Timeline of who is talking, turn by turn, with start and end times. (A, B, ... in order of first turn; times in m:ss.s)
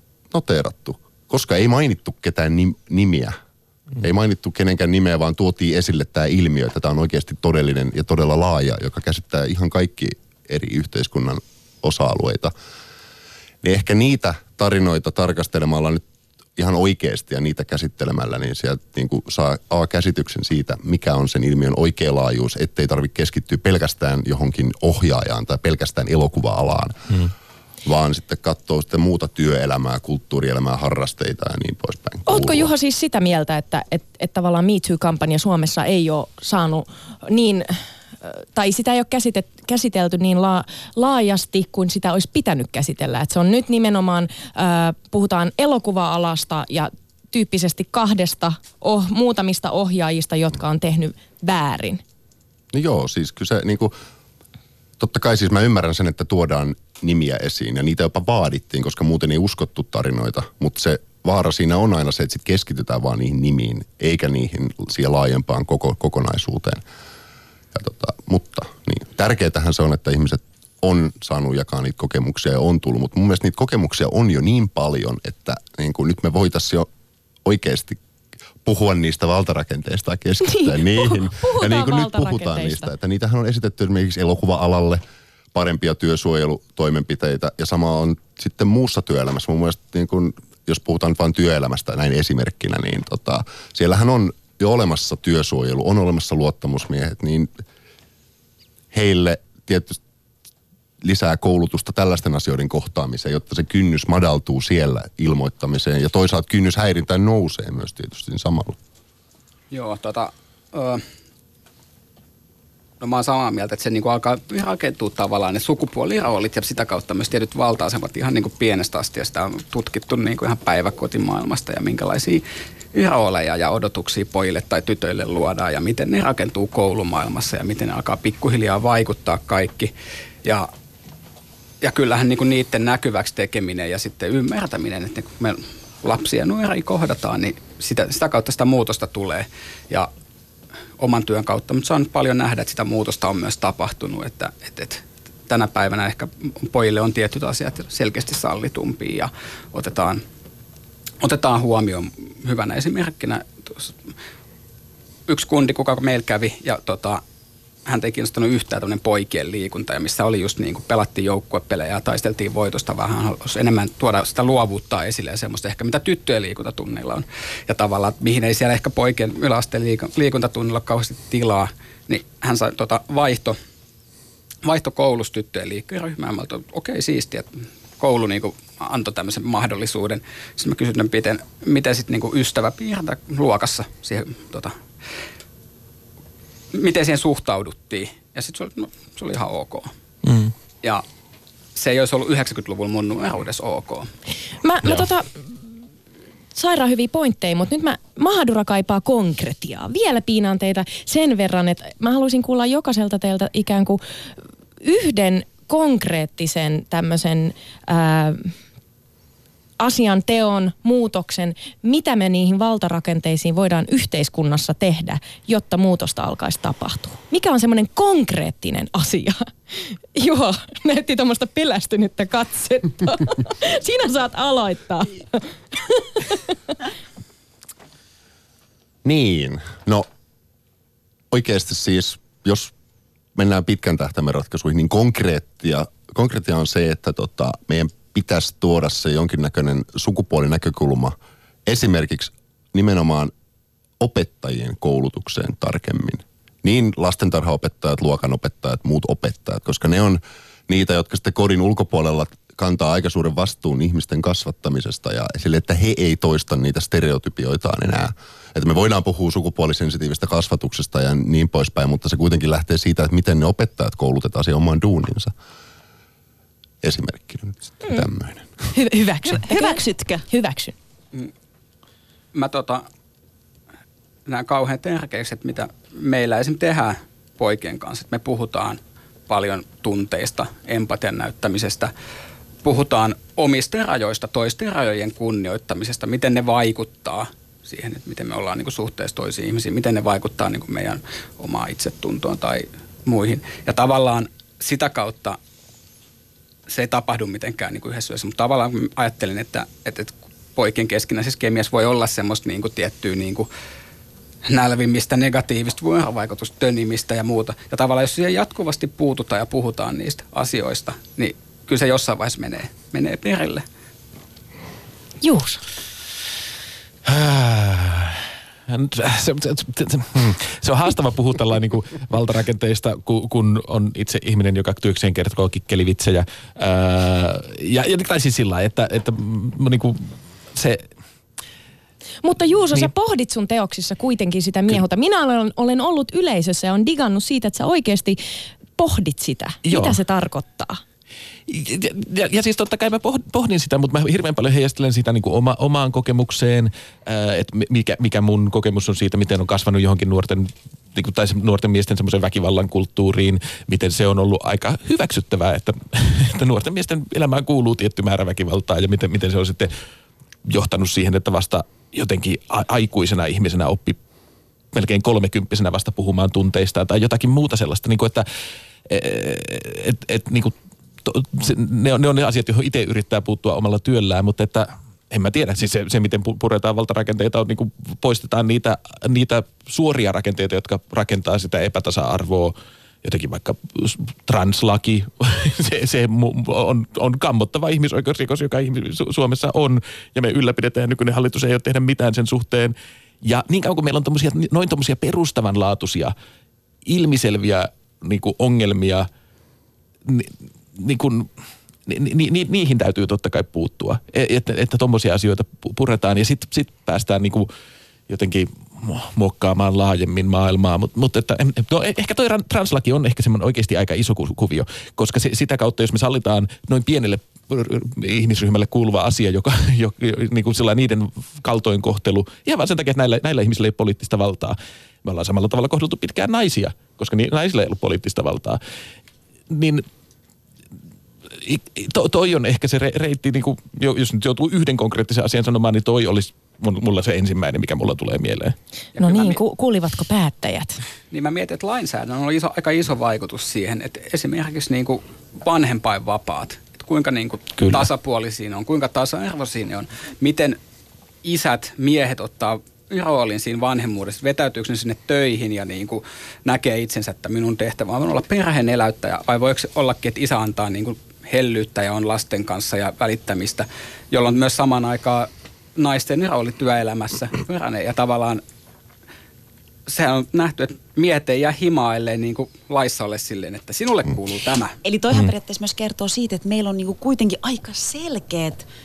0:00.3-0:03.4 A
0:04.0-0:12.5 A
0:13.6-0:16.0 A
0:16.6-0:27.0 A
0:27.8-0:32.7 A
0:32.3-0:52.0 B
0:52.7-0:53.9 A
0:55.0-1:06.8 A
1:07.7-1:16.9 A
1:17.4-1:18.0 A
1:18.6-1:25.0 A
1:20.5-1:22.9 B
1:25.5-1:37.5 A
1:38.9-1:40.0 A
1:41.0-1:48.8 A
1:49.7-1:51.0 C
1:53.0-2:09.9 C
2:10.4-2:10.7 C
2:11.8-2:20.1 C
2:21.0-2:30.2 C
2:31.2-2:34.0 C
2:35.3-2:37.2 C
2:37.9-2:53.6 C
2:54.6-3:04.8 C
3:06.7-3:09.9 C
3:10.2-3:10.5 D
3:11.8-3:14.1 C
3:14.6-3:15.4 B
3:16.6-3:24.0 B
3:24.8-3:28.5 B
3:29.8-3:46.7 B
3:49.0-3:50.1 A
3:51.3-3:52.7 A
3:53.4-4:03.3 A
4:04.0-4:25.3 A
4:26.8-4:28.5 A
4:28.7-4:30.7 B
4:29.3-4:30.2 E
4:32.3-4:32.9 C
4:34.3-4:41.9 C
4:42.6-4:55.4 C
4:56.7-5:03.5 C
5:04.4-5:13.6 C
5:15.2-5:15.6 B
5:17.0-5:30.9 D
5:32.2-5:38.2 B
5:38.8-5:40.8 B
5:39.6-5:40.0 D
5:41.5-5:59.7 D
6:00.5-6:04.0 D
6:04.7-6:08.3 D
6:08.9-6:36.2 D
6:36.9-6:39.1 D
6:40.0-6:41.3 D
6:41.9-6:47.5 D
6:48.1-7:08.6 D
7:09.5-7:09.9 D
7:11.4-7:18.6 D
7:19.0-7:19.4 C
7:19.0-7:20.8 B
7:21.1-7:30.6 C
7:27.6-7:27.9 D
7:31.2-7:48.4 C
7:49.9-7:54.8 C
7:54.8-7:58.7 E